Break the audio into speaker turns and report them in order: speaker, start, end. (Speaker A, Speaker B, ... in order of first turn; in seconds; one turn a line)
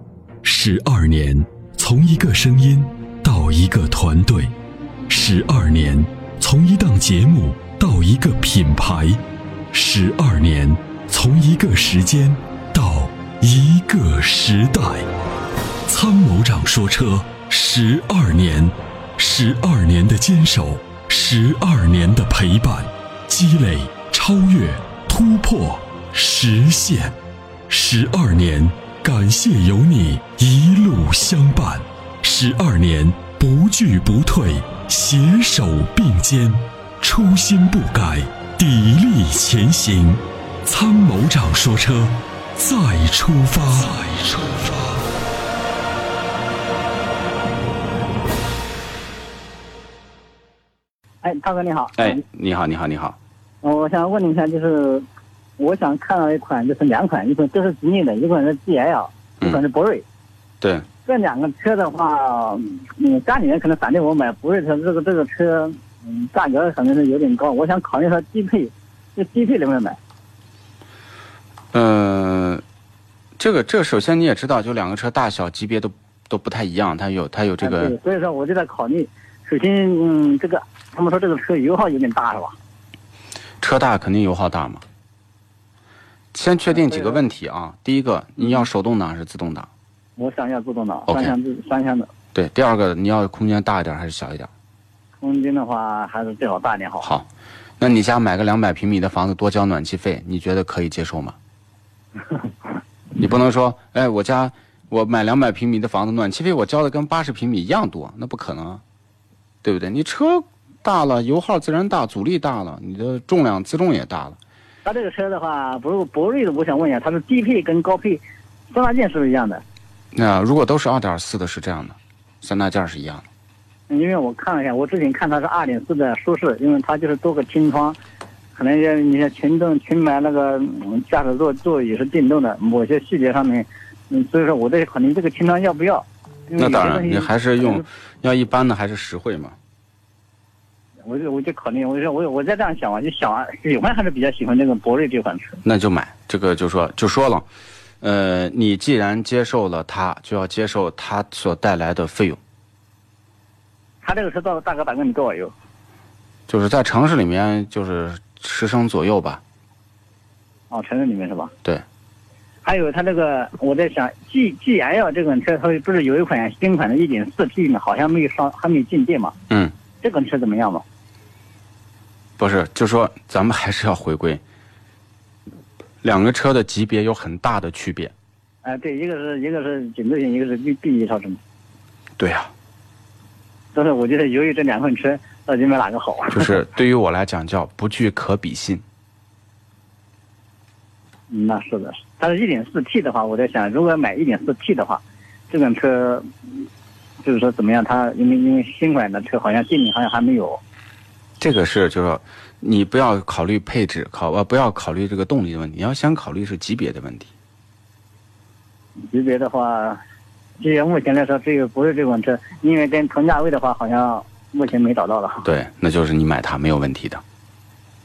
Speaker A: 0.4-4.5
Speaker A: 5.1-9.2
Speaker A: 9.7-15.1
Speaker A: 15.8-27.1
Speaker A: 27.7-45.0
Speaker B: 51.2-52.2
Speaker C: 52.0-53.2
Speaker B: 53.6-55.0
Speaker B: 55.6-60.0
Speaker C: 60.6-60.9
Speaker B: 61.0-70.0
Speaker C: 71.7-72.6
Speaker C: 73.4-78.0
Speaker B: 77.6-82.6
Speaker C: 83.6-84.8
Speaker C: 86.3-89.7
Speaker B: 86.7-87.2
Speaker B: 90.2-92.1
Speaker C: 91.1-91.3
Speaker C: 92.3-94.5
Speaker B: 95.2-97.1
Speaker C: 97.0-97.3
Speaker C: 97.8-101.4
Speaker C: 103.2-108.8
Speaker C: 109.6-114.4
Speaker B: 114.8-119.6
Speaker C: 120.1-123.3
Speaker B: 123.9-128.0
Speaker B: 128.5-137.8
Speaker C: 136.6-139.6
Speaker B: 141.0-145.6
Speaker C: 145.6-147.5
Speaker C: 148.0-152.4
Speaker B: 154.0-155.5
Speaker C: 156.5-159.4
Speaker B: 160.7-161.5
Speaker B: 162.6-169.4
Speaker B: 170.0-170.8
Speaker C: 172.4-174.4
Speaker C: 176.0-178.1
Speaker B: 178.6-181.4
Speaker C: 182.2-182.5
Speaker B: 183.7-186.5
Speaker C: 186.3-188.8
Speaker B: 191.3-196.6
Speaker B: 197.2-200.6
Speaker C: 201.4-207.3
Speaker B: 209.1-210.0
Speaker B: 210.6-215.5
Speaker C: 215.4-217.2